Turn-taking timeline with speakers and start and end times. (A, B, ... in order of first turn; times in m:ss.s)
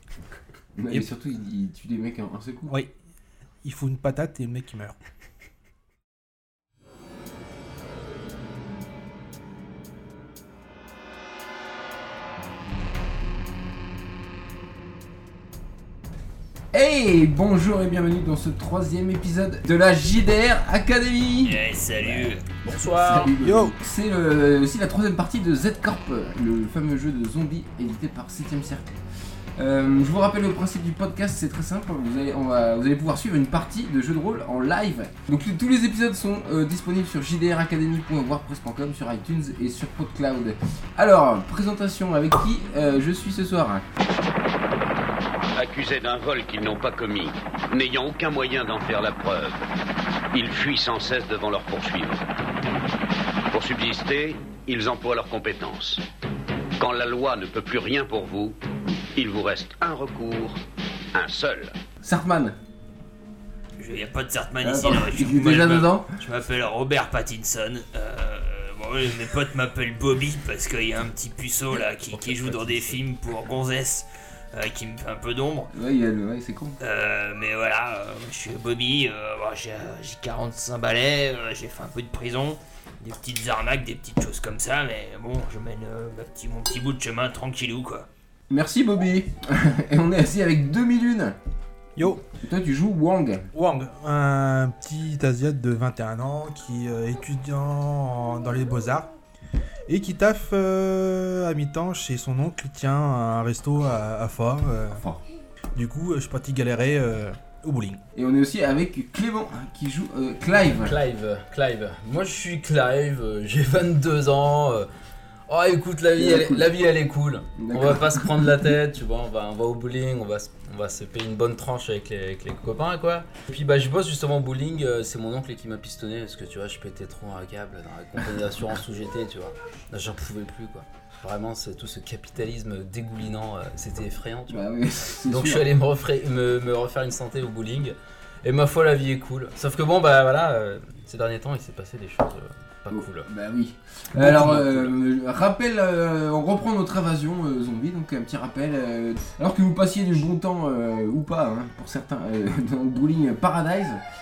0:00.8-0:02.8 A
0:02.7-0:02.9 B
0:03.6-0:05.0 B
0:16.7-0:21.6 A
0:21.4-0:22.4 C
0:22.5-0:23.3 D
0:22.7-0:28.9 A
0:23.4-0:23.7 B
0:29.6-0:43.8 A
0:45.6-0:49.6 E
0:50.3-0:52.2 E
0:53.5-0:56.0 E
0:56.8-0:58.6 E
0:59.2-1:00.6 E
1:01.1-1:01.7 E
1:02.0-1:02.6 A
1:03.8-1:15.7 C
1:04.6-1:06.1 A
1:12.1-1:13.0 B
1:15.7-1:16.8 A
1:16.8-1:28.1 C
1:28.5-1:31.4 A
1:32.0-1:32.2 B
1:32.3-1:33.5 A
1:33.5-1:39.1 B
1:39.9-1:45.0 B
1:44.9-1:45.2 A
1:45.8-1:48.0 B
1:48.2-1:51.0 A
1:50.8-1:54.9 D
1:55.5-2:14.6 D
1:56.2-1:56.8 A
1:57.6-1:58.7 A
2:14.5-2:15.7 A
2:15.3-2:23.3 D
2:22.9-2:34.0 A
2:24.2-2:24.9 D